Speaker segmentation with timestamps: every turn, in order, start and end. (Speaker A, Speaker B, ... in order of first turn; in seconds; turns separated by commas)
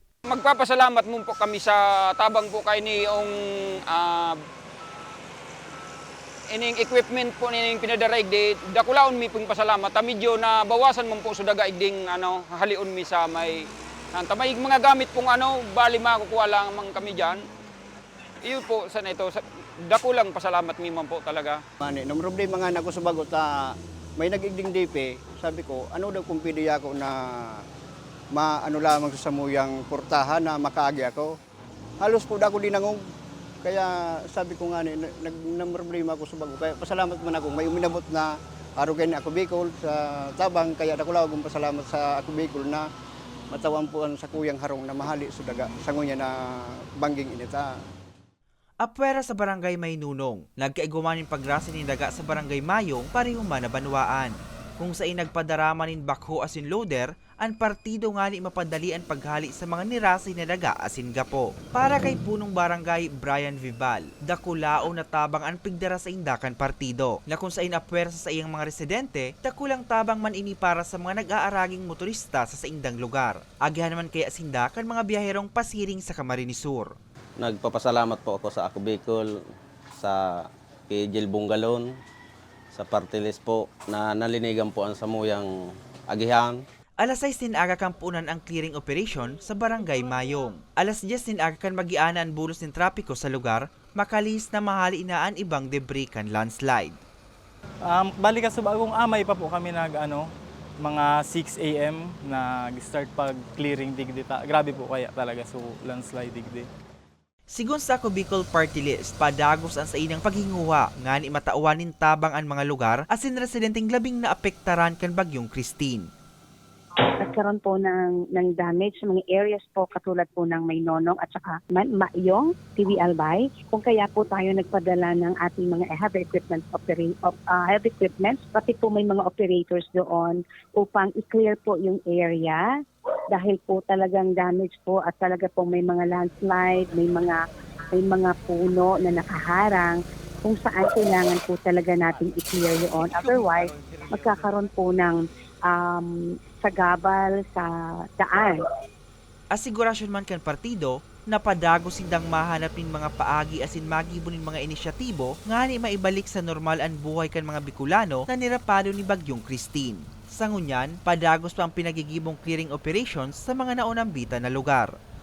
Speaker A: 0.3-3.3, Speaker A: 3.9-4.4, Speaker A: 6.5-17.4, Speaker A: 18.4-21.6, Speaker B: 21.8-27.6, Speaker B: 28.3-31.3, Speaker B: 32.0-33.0, Speaker B: 33.6-42.8, Speaker B: 43.5-47.7, Speaker C: 48.8-76.9, Speaker D: 77.4-79.4, Speaker D: 79.9-81.9, Speaker D: 82.7-85.5, Speaker D: 86.1-86.6, Speaker C: 87.0-97.0, Speaker E: 97.8-106.7, Speaker C: 107.5-116.1, Speaker F: 117.0-132.6, Speaker F: 133.3-137.4, Speaker F: 137.9-148.6, Speaker C: 149.5-164.9